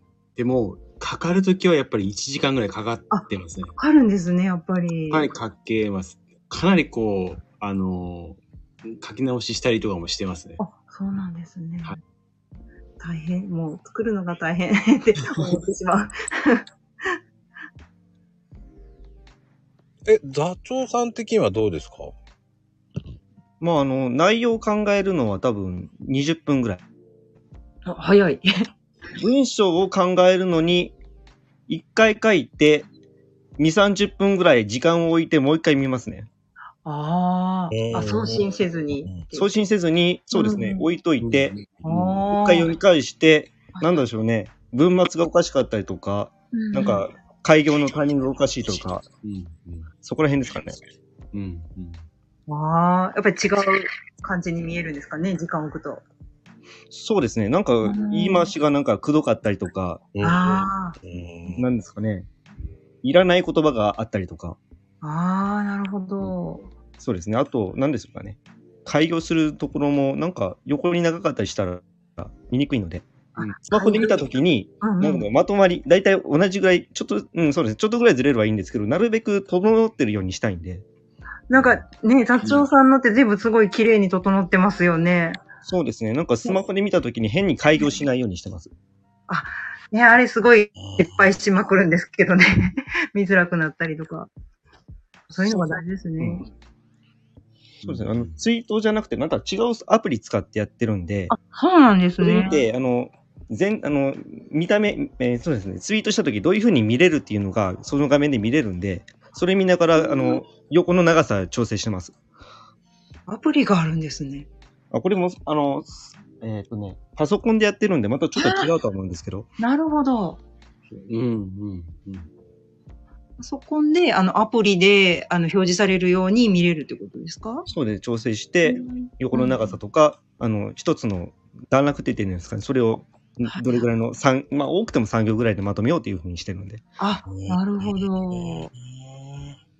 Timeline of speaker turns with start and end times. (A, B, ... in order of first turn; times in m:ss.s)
0:00.4-0:03.8 A
0:03.1-0:05.3 B
0:05.1-0:10.6 A
0:10.6-0:12.0 B
0:13.0-0:17.1 B
0:20.0-0:22.1 C
0:23.6-0:26.8 D
0:27.8-0:28.5 B
0:29.2-0:31.0 D
0:31.7-0:32.9 D
0:33.6-0:36.3 D
0:36.8-0:39.6 B
0:37.7-0:38.4 C
0:39.3-0:41.6 D
0:40.3-0:40.8 B
0:41.2-0:42.2 A
0:41.8-0:42.7 B
0:42.3-0:49.0 D
0:43.7-0:44.0 B
0:46.5-0:47.0 B
0:49.2-0:49.9 A
0:50.0-0:50.8 D
0:51.3-0:52.0 A
0:52.5-0:56.0 B
0:56.9-1:00.4 D
0:57.8-0:58.5 B
1:00.2-1:01.0 B
1:01.0-1:01.6 C
1:01.5-1:02.3 D
1:03.0-1:04.6 D
1:05.0-1:06.6 B
1:07.0-1:20.8 D
1:13.5-1:14.1 B
1:14.8-1:15.3 B
1:21.5-1:25.4 B
1:22.4-1:22.7 A
1:25.6-1:28.7 D
1:29.3-1:34.3 B
1:30.8-1:31.3 C
1:35.3-1:36.4 B
1:37.8-1:41.3 D
1:41.3-1:42.6 B
1:42.2-1:52.2 D
1:50.0-1:50.4 B
1:53.3-1:54.5 B
1:54.9-1:59.5 D
1:58.4-1:58.7 B
1:59.6-2:00.4 B
2:00.9-2:02.3 A
2:03.4-2:07.6 B
2:07.7-2:16.8 D
2:08.6-2:09.8 B
2:17.0-2:18.7 B
2:17.2-2:19.6 C